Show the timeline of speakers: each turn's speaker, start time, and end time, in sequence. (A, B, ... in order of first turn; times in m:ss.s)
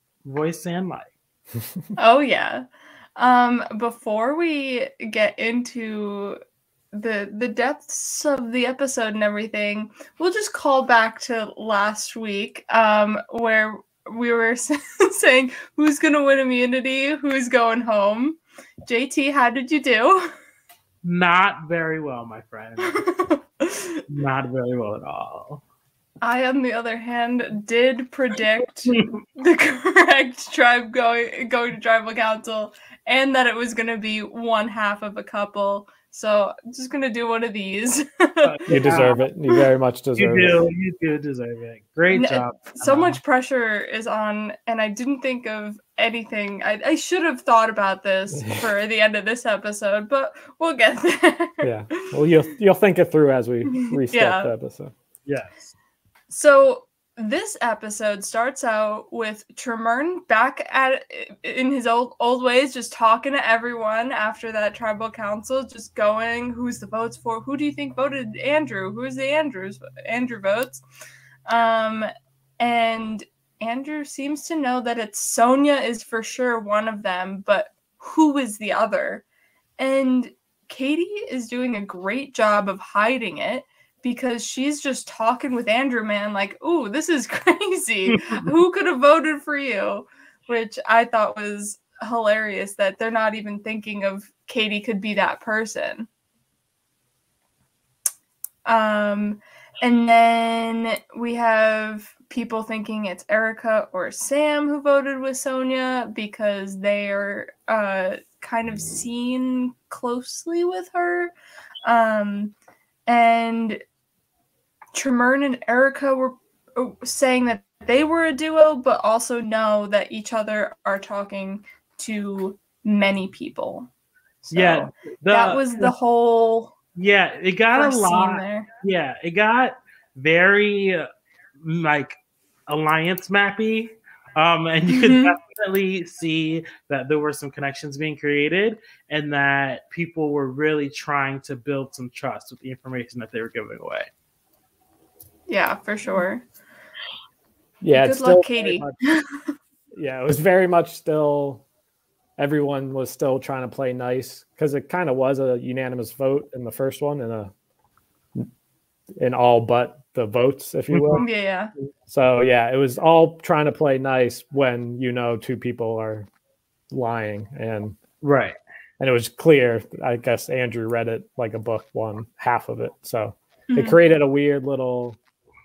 0:00.2-0:01.1 A
0:02.0-0:02.6 B
0:03.2-0:06.4 B
0:06.9-0:20.3 B
0:21.0-0:23.1 A
0:22.8-0:24.0 B
0:24.1-0:25.6 A
0:26.2-0:38.7 B
0:28.9-0:29.2 A
0:38.4-0:39.2 A
0:38.7-0:40.6 C
0:40.2-0:43.2 A
0:42.1-0:52.1 B
0:51.6-0:54.9 C
0:53.8-0:54.5 B
0:55.2-0:55.7 A
0:56.3-1:10.8 B
1:11.5-1:12.1 B
1:12.6-1:19.2 B
1:19.8-1:36.1 B
1:28.2-1:28.4 A
1:38.7-1:51.3 B
1:51.8-1:52.5 B
1:53.1-1:53.8 B
1:54.9-2:03.9 B
2:04.4-2:06.7 B
2:04.5-2:05.9 A
2:07.0-2:11.1 A
2:07.7-2:08.7 B
2:11.6-2:24.1 A
2:14.9-2:15.3 B
2:25.5-2:26.4 B
2:27.8-2:28.9 C
2:27.9-2:29.4 B
2:29.9-2:31.6 C
2:32.4-2:37.5 C
2:39.2-2:41.2 C
2:40.9-2:41.2 A
2:41.2-2:41.7 B
2:42.1-2:46.3 C
2:46.9-2:48.0 C
2:48.2-2:48.6 A
2:49.0-2:55.2 C
2:53.7-2:54.0 B